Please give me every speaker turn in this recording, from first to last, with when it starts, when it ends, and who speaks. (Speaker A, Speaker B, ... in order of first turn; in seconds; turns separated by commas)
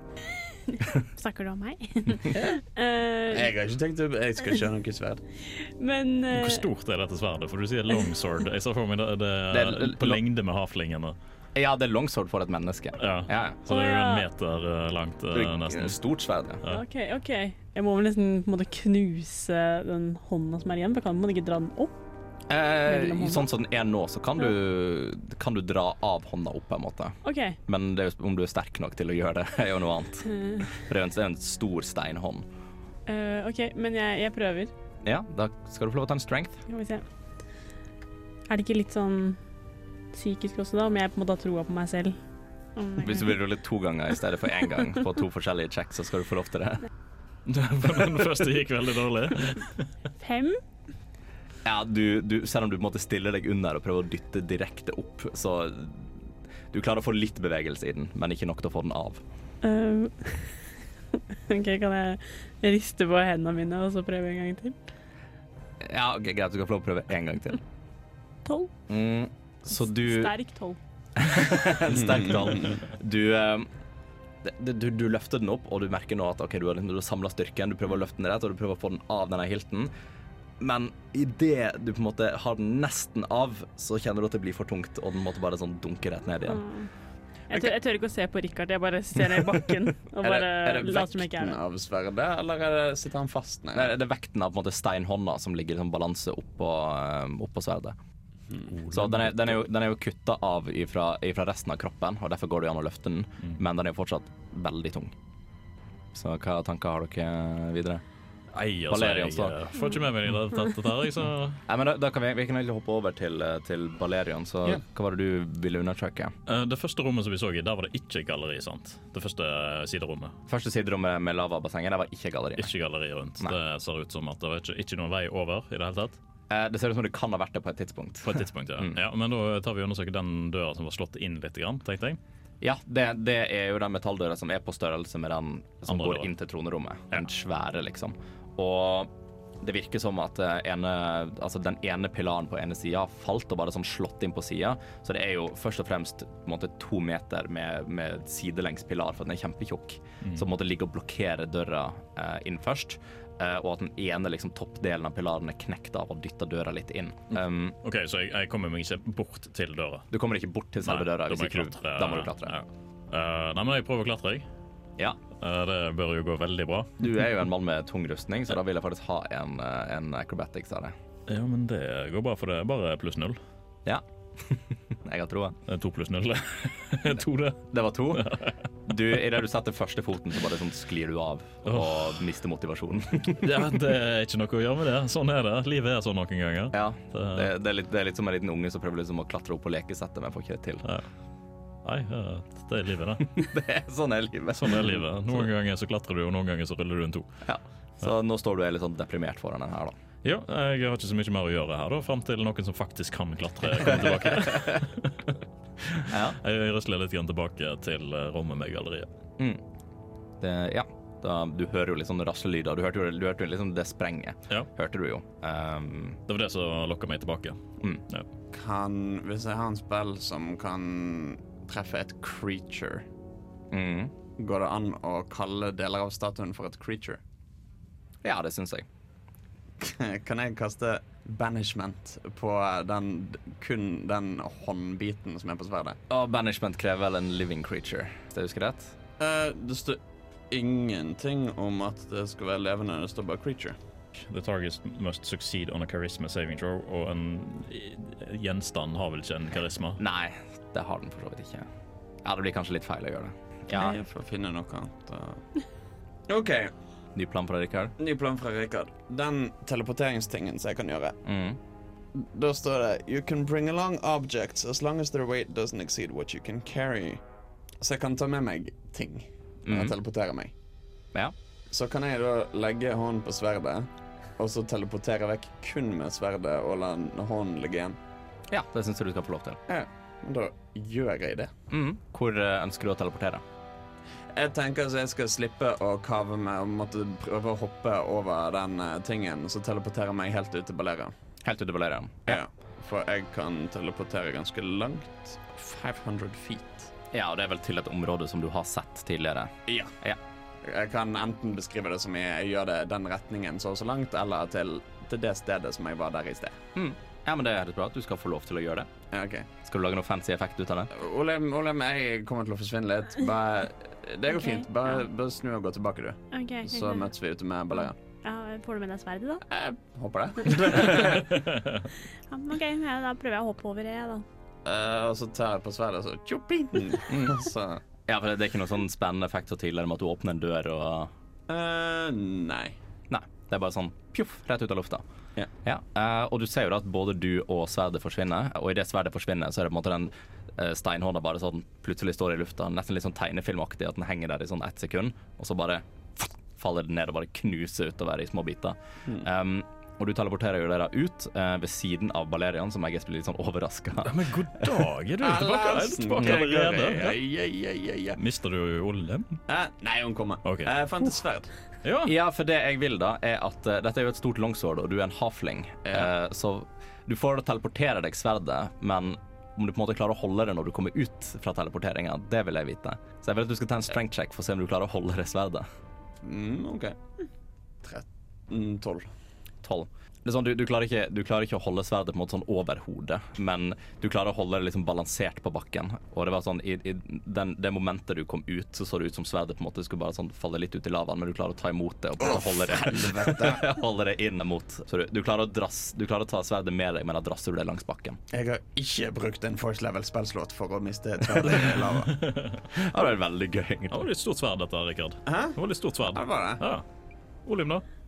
Speaker A: 0.7-3.5, Speaker B: 3.3-5.2, Speaker A: 5.5-6.6, Speaker C: 6.3-11.1, Speaker D: 9.5-10.2, Speaker D: 11.5-13.6, Speaker C: 13.0-16.0, Speaker A: 13.7-14.2, Speaker D: 15.3-16.6, Speaker A: 16.7-21.9, Speaker D: 22.5-32.4, Speaker A: 22.8-23.5, Speaker A: 27.2-27.6, Speaker A: 30.3-30.7, Speaker A: 33.1-34.7, Speaker D: 35.0-36.6, Speaker A: 36.7-37.0, Speaker A: 38.5-39.4, Speaker A: 40.1-42.2, Speaker A: 42.8-43.4, Speaker D: 43.0-46.8, Speaker C: 47.5-49.9, Speaker A: 50.2-50.6, Speaker D: 51.6-56.1, Speaker D: 56.7-59.2, Speaker A: 59.6-60.6, Speaker A: 61.1-64.8, Speaker D: 65.8-67.6, Speaker A: 68.4-68.7, Speaker D: 68.9-70.3, Speaker A: 69.7-70.8, Speaker D: 71.2-73.7, Speaker B: 71.9-72.7, Speaker D: 74.4-79.9, Speaker D: 80.6-86.6, Speaker A: 86.5-86.9, Speaker A: 87.5-91.6, Speaker D: 89.3-89.7, Speaker D: 90.2-91.3, Speaker B: 91.3-93.9, Speaker D: 93.7-98.0, Speaker C: 98.8-99.5, Speaker D: 98.9-105.1, Speaker D: 106.1-108.0, Speaker C: 108.5-111.6, Speaker D: 108.9-109.5, Speaker D: 111.7-116.3, Speaker C: 116.5-120.3, Speaker D: 120.5-122.7, Speaker C: 122.6-126.2, Speaker D: 126.5-128.9, Speaker C: 128.2-132.2, Speaker D: 132.6-157.8, Speaker C: 135.9-136.3, Speaker C: 157.3-160.1, Speaker D: 160.1-162.5, Speaker C: 160.8-164.5, Speaker C: 165.4-167.1, Speaker D: 167.0-170.9, Speaker C: 171.3-173.4, Speaker D: 173.8-175.6, Speaker C: 175.7-178.6, Speaker D: 177.7-178.3, Speaker D: 178.8-183.7, Speaker C: 181.7-182.1, Speaker C: 183.4-187.5, Speaker D: 186.7-190.8, Speaker C: 191.8-193.4, Speaker D: 193.3-195.5, Speaker C: 194.6-197.3, Speaker D: 197.4-199.9, Speaker C: 200.2-205.3, Speaker C: 205.9-209.1, Speaker D: 206.1-206.4, Speaker D: 210.4-216.2, Speaker C: 216.3-218.3, Speaker B: 218.5-223.1, Speaker D: 223.7-224.1, Speaker B: 224.4-227.2, Speaker D: 228.2-228.8, Speaker B: 229.8-236.0, Speaker D: 236.1-238.9, Speaker B: 239.2-240.0, Speaker B: 240.5-243.8, Speaker C: 244.1-250.0, Speaker D: 249.9-251.7, Speaker D: 252.2-254.0, Speaker B: 253.7-255.4, Speaker B: 256.3-256.7, Speaker D: 257.1-257.9, Speaker B: 258.0-261.2, Speaker D: 261.2-261.6, Speaker B: 262.1-267.2, Speaker B: 267.8-270.5, Speaker D: 269.6-269.9, Speaker B: 271.7-278.0, Speaker D: 278.5-279.6, Speaker B: 279.7-281.5, Speaker D: 281.7-283.4, Speaker B: 284.3-291.1, Speaker D: 291.4-292.4, Speaker B: 292.3-296.9, Speaker D: 297.1-300.2, Speaker B: 299.7-299.9, Speaker B: 300.6-306.6, Speaker D: 306.7-308.9, Speaker B: 309.1-309.5, Speaker D: 309.6-310.9, Speaker B: 310.9-317.9, Speaker A: 314.4-315.0, Speaker A: 316.3-317.1, Speaker A: 318.2-319.4, Speaker B: 319.5-321.5, Speaker A: 322.3-324.2, Speaker B: 324.6-327.8, Speaker D: 327.1-327.4, Speaker D: 328.1-331.1, Speaker B: 331.5-332.8, Speaker D: 333.1-335.0, Speaker D: 335.6-354.9, Speaker C: 354.0-357.2, Speaker B: 355.2-358.2, Speaker C: 358.1-359.4, Speaker B: 359.5-361.5, Speaker C: 360.4-360.7, Speaker C: 361.8-362.1, Speaker D: 362.0-375.6, Speaker B: 376.2-376.9, Speaker B: 377.8-379.1, Speaker D: 379.6-398.2, Speaker B: 392.2-393.6, Speaker B: 398.3-402.2, Speaker C: 402.1-402.6, Speaker D: 402.7-404.0, Speaker C: 403.9-406.8, Speaker B: 405.2-405.6, Speaker B: 406.1-406.6, Speaker C: 407.4-407.8